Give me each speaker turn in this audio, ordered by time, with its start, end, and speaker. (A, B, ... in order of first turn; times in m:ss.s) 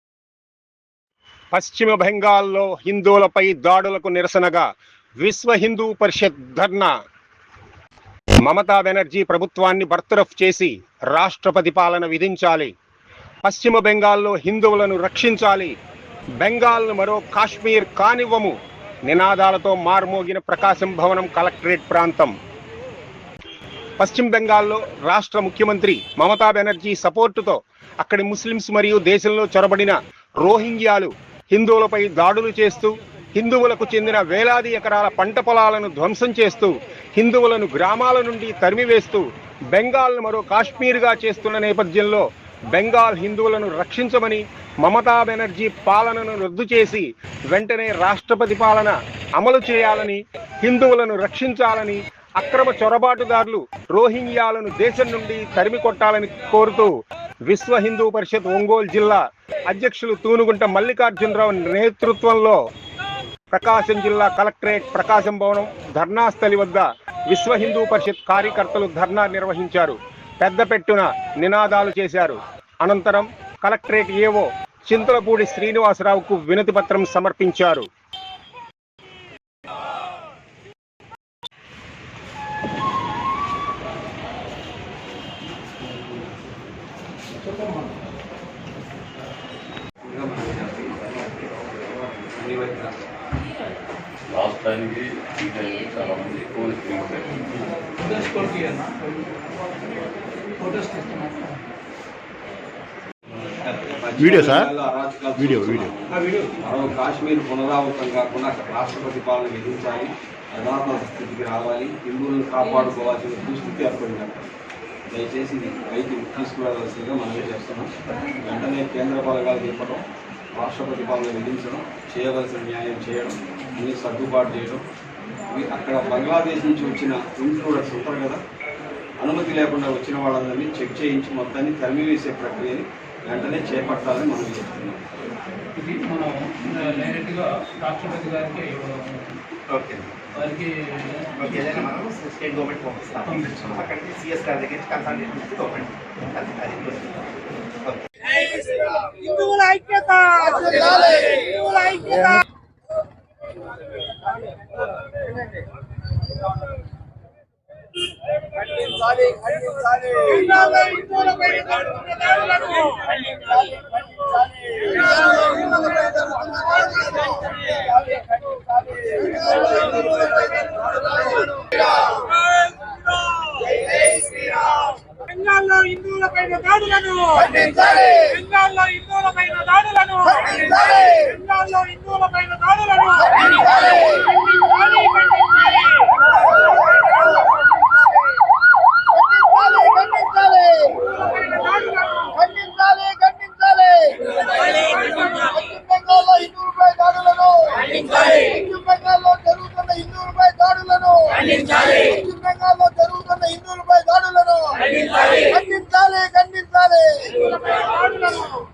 0:01.5-0:04.6 A
0:05.2-0:06.9 A
0:08.4-0:12.7 A
0:13.4-0:15.7 A
0:16.4-0:18.6 A
0:19.1-0:22.3 A
0:24.0-0:56.9 A
0:57.4-1:02.6 A
1:03.5-1:17.8 A
1:30.0-1:33.0 B
1:34.3-1:37.6 C
1:38.0-1:39.0 D
1:40.6-1:41.3 D
1:40.8-1:41.2 E
1:43.6-1:54.5 B
1:44.2-1:44.7 C
1:45.4-1:45.9 C
1:55.1-2:00.0 B
2:00.5-2:04.8 B
2:05.5-2:08.4 B
2:09.2-2:15.0 B
2:15.8-2:17.4 E
2:15.8-2:19.1 D
2:18.0-2:18.6 E
2:19.7-2:20.1 F
2:20.4-2:21.1 D
2:21.4-2:27.1 F
2:29.1-2:32.4 E
2:38.7-2:40.3 B
2:40.3-2:41.5 E
2:55.2-3:05.4 E
3:09.2-3:11.0 G
3:12.3-3:14.4 G
3:15.4-3:24.8 G
3:25.5-3:27.3 G
3:27.5-3:28.6 E